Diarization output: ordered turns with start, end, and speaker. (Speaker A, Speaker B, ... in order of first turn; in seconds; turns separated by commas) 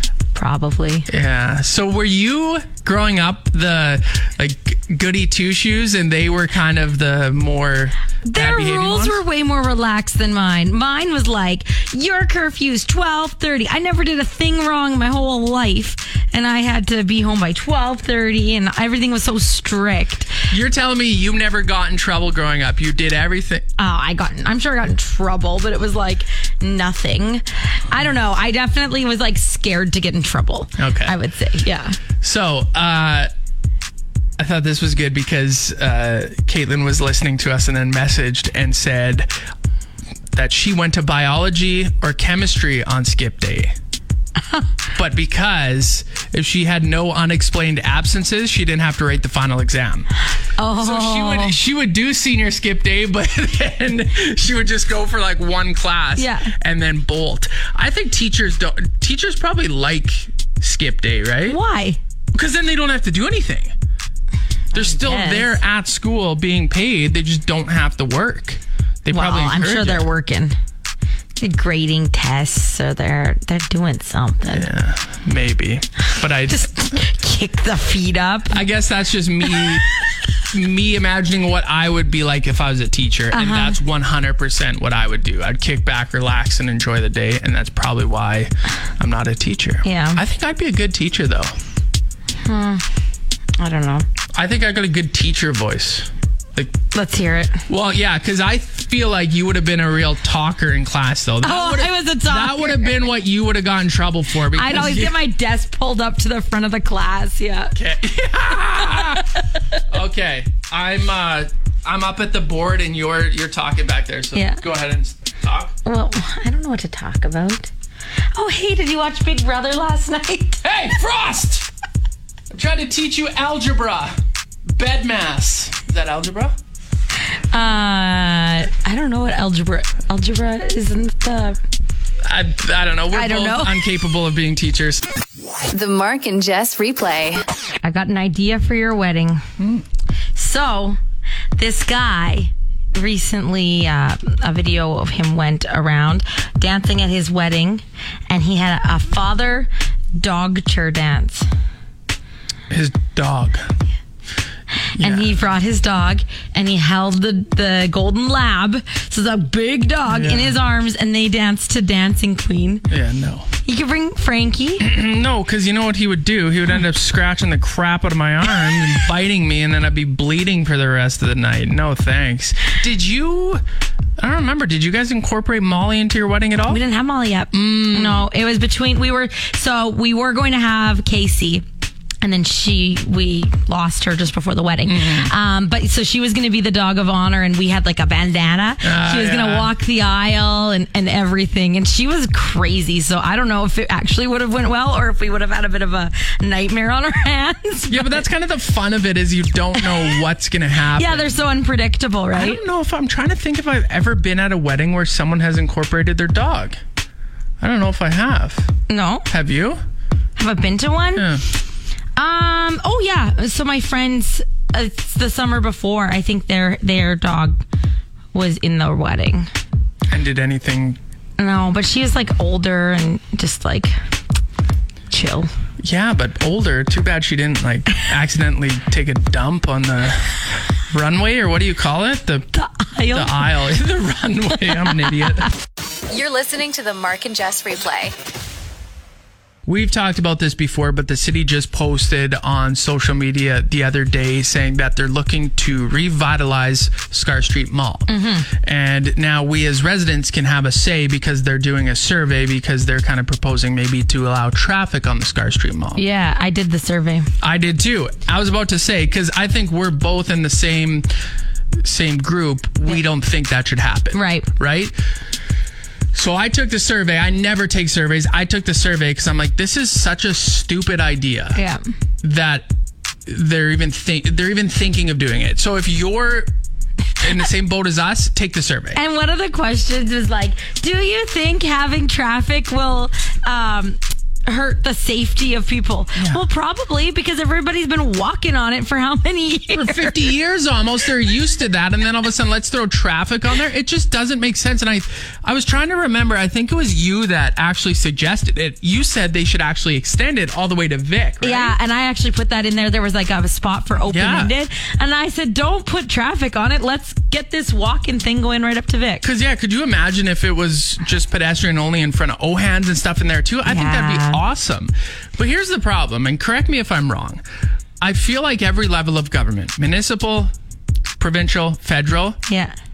Speaker A: 0.3-1.1, Speaker B: 1.1-9.2, Speaker A: 8.3-20.5, Speaker B: 20.5-23.6, Speaker A: 23.8-32.0, Speaker B: 30.8-31.1, Speaker B: 32.2-33.3, Speaker B: 34.4-39.3, Speaker B: 40.3-43.7, Speaker B: 44.9-50.1, Speaker A: 50.6-51.6, Speaker B: 50.8-61.6, Speaker A: 56.2-56.5, Speaker A: 61.5-62.0, Speaker B: 62.3-63.7, Speaker B: 64.7-70.0, Speaker A: 64.7-65.6, Speaker A: 69.1-70.5, Speaker A: 71.4-74.7, Speaker B: 74.5-77.0, Speaker A: 76.5-78.6, Speaker B: 78.5-79.9, Speaker B: 80.5-91.5, Speaker A: 83.3-83.8, Speaker A: 89.8-90.2, Speaker A: 92.4-92.8, Speaker A: 93.6-94.0, Speaker B: 94.3-96.8, Speaker A: 96.9-97.6, Speaker B: 97.7-105.2, Speaker A: 101.4-103.0, Speaker A: 104.5-107.8, Speaker B: 107.7-109.3, Speaker A: 108.8-109.8, Speaker B: 109.9-115.7, Speaker A: 114.3-114.6, Speaker A: 115.8-117.7, Speaker A: 118.3-120.6, Speaker B: 120.6-121.7, Speaker B: 122.5-126.5, Speaker A: 127.5-131.6, Speaker B: 132.2-135.0, Speaker A: 133.1-133.8, Speaker C: 135.7-137.4, Speaker A: 137.8-139.4, Speaker B: 139.6-139.8, Speaker A: 140.3-141.0, Speaker A: 141.6-151.5, Speaker B: 152.7-153.7, Speaker A: 154.9-162.9, Speaker B: 155.0-155.4, Speaker B: 160.1-160.6, Speaker B: 162.9-163.5, Speaker A: 163.6-164.9, Speaker B: 164.8-173.6, Speaker B: 174.2-176.8, Speaker A: 176.7-181.6, Speaker B: 177.5-178.3, Speaker A: 182.2-198.2, Speaker B: 184.9-185.3, Speaker B: 188.8-189.7, Speaker B: 197.9-201.4, Speaker A: 199.8-200.2, Speaker A: 200.9-202.6, Speaker B: 202.3-206.8, Speaker B: 207.6-208.7, Speaker A: 208.9-209.3, Speaker B: 209.3-209.8, Speaker A: 210.4-211.3, Speaker B: 211.2-211.4, Speaker A: 212.2-217.6, Speaker A: 218.3-219.5, Speaker B: 220.1-221.0, Speaker A: 221.4-223.9, Speaker A: 225.1-225.5, Speaker B: 225.8-232.5, Speaker A: 232.5-233.5, Speaker B: 233.1-235.5, Speaker A: 234.8-235.3, Speaker C: 236.1-238.1, Speaker B: 239.7-256.0, Speaker A: 248.1-248.5, Speaker A: 255.9-257.3, Speaker B: 257.4-261.1, Speaker B: 261.8-264.9, Speaker A: 264.1-264.5, Speaker B: 266.1-271.6, Speaker A: 271.5-271.8, Speaker B: 272.2-272.7, Speaker B: 273.2-276.5, Speaker B: 277.2-279.0, Speaker A: 278.9-290.3, Speaker B: 289.7-301.8, Speaker A: 301.4-309.2, Speaker B: 304.1-304.5, Speaker B: 309.2-317.4, Speaker A: 313.6-314.4, Speaker B: 318.0-320.5, Speaker B: 321.2-322.4, Speaker A: 322.5-322.7